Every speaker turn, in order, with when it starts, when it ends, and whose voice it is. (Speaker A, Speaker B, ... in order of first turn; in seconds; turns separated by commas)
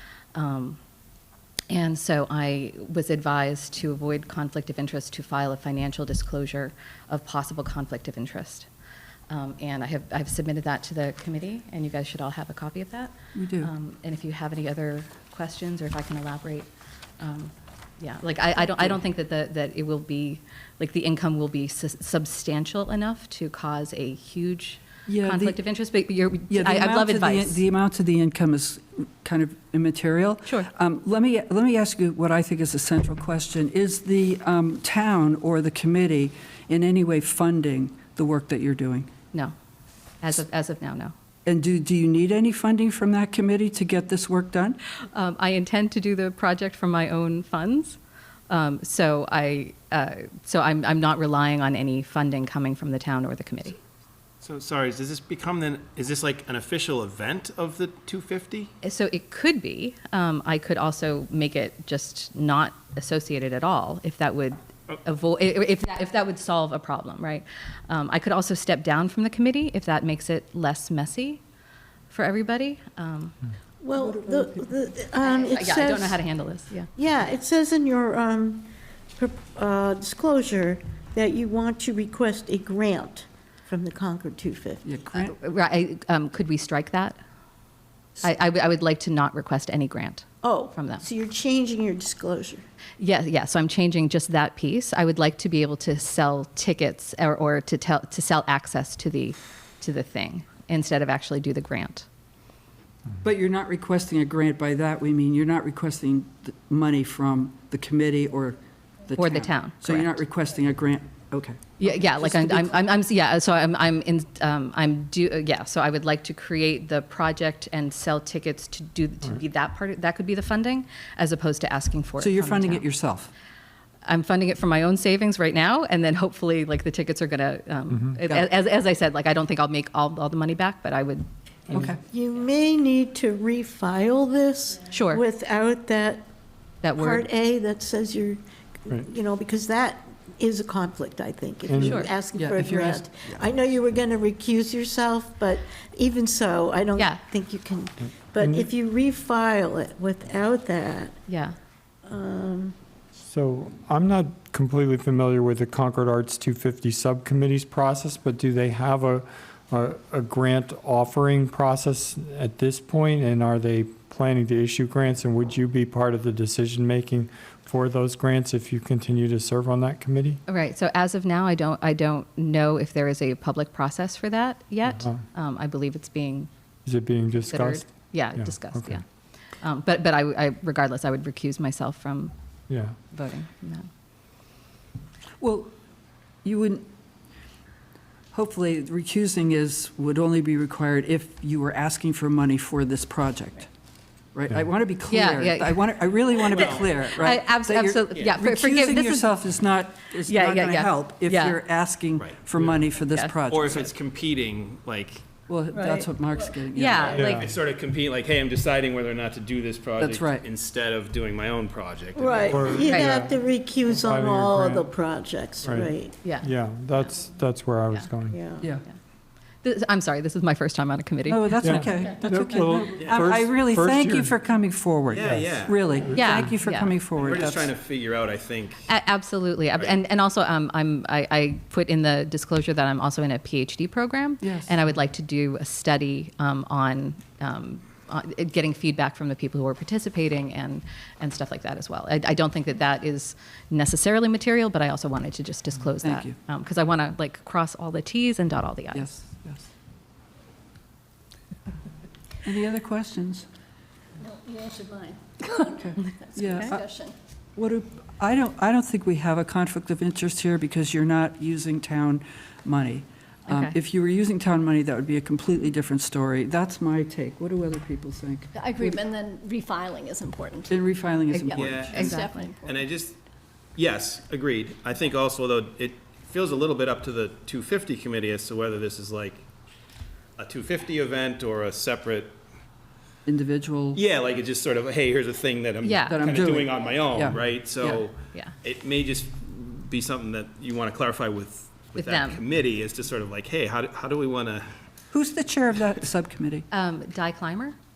Speaker A: 0.3-0.8, Speaker A: 1.7-8.7, Speaker A: 9.3-27.6, Speaker B: 13.4-13.7, Speaker B: 25.1-25.6, Speaker B: 26.5-39.1, Speaker A: 40.2-41.1, Speaker B: 41.5-44.8, Speaker A: 45.1-48.0, Speaker A: 48.5-53.8, Speaker C: 54.4-58.7, Speaker A: 58.8-71.4, Speaker A: 72.1-73.4, Speaker D: 73.8-76.2, Speaker B: 74.0-74.7, Speaker A: 75.2-76.9, Speaker D: 76.9-84.9, Speaker B: 84.8-85.3, Speaker A: 85.1-87.2, Speaker A: 88.2-91.0, Speaker D: 90.4-92.6, Speaker A: 93.0-102.1, Speaker B: 103.2-112.8, Speaker A: 109.2-110.2, Speaker A: 111.8-122.8, Speaker B: 122.2-123.3, Speaker A: 124.0-131.3, Speaker E: 127.9-128.2, Speaker B: 131.7-132.0, Speaker D: 132.0-136.2, Speaker A: 134.9-135.2, Speaker A: 136.8-137.2, Speaker D: 136.9-151.1, Speaker E: 141.7-142.1, Speaker A: 141.8-142.1, Speaker B: 142.3-143.3, Speaker A: 146.9-147.2, Speaker E: 148.4-148.7, Speaker A: 151.3-151.6, Speaker D: 152.0-152.7, Speaker E: 153.2-170.4, Speaker A: 170.5-176.5, Speaker E: 174.8-175.2, Speaker E: 176.8-179.0, Speaker A: 177.4-179.0, Speaker A: 179.6-182.3, Speaker E: 182.7-183.0, Speaker A: 183.1-183.9, Speaker B: 185.4-185.7, Speaker B: 186.4-186.9, Speaker B: 188.3-193.7, Speaker B: 194.3-203.9, Speaker A: 195.1-199.3, Speaker C: 196.4-197.0, Speaker C: 198.1-198.3, Speaker A: 200.2-201.6, Speaker C: 202.2-202.8, Speaker C: 203.5-205.4, Speaker B: 205.5-207.1, Speaker F: 205.8-206.1, Speaker A: 206.7-207.4, Speaker C: 207.0-212.9, Speaker E: 207.1-207.5, Speaker B: 210.0-210.4, Speaker D: 212.1-216.1, Speaker E: 212.4-213.4, Speaker A: 212.9-213.2, Speaker E: 213.9-214.9, Speaker E: 215.6-218.4, Speaker A: 216.2-217.1, Speaker D: 218.3-218.7, Speaker A: 219.6-221.9, Speaker B: 221.2-227.7, Speaker E: 221.6-224.3, Speaker C: 223.0-223.3, Speaker C: 225.1-226.3, Speaker E: 226.0-226.3, Speaker A: 226.1-226.9, Speaker C: 227.1-228.9, Speaker A: 228.9-249.1, Speaker B: 234.4-234.8, Speaker B: 246.0-246.3, Speaker B: 248.9-249.7, Speaker B: 252.4-253.4, Speaker F: 254.2-257.1, Speaker B: 255.8-256.7, Speaker B: 257.6-269.0, Speaker A: 263.5-263.8, Speaker F: 268.5-272.8, Speaker B: 270.7-272.1, Speaker A: 271.3-272.5, Speaker C: 271.5-273.2, Speaker C: 273.8-279.4, Speaker C: 280.4-282.4, Speaker B: 283.2-284.0, Speaker C: 283.9-294.7, Speaker A: 285.8-286.2, Speaker B: 286.1-288.1, Speaker A: 292.0-292.4, Speaker B: 295.1-296.7, Speaker A: 296.7-297.8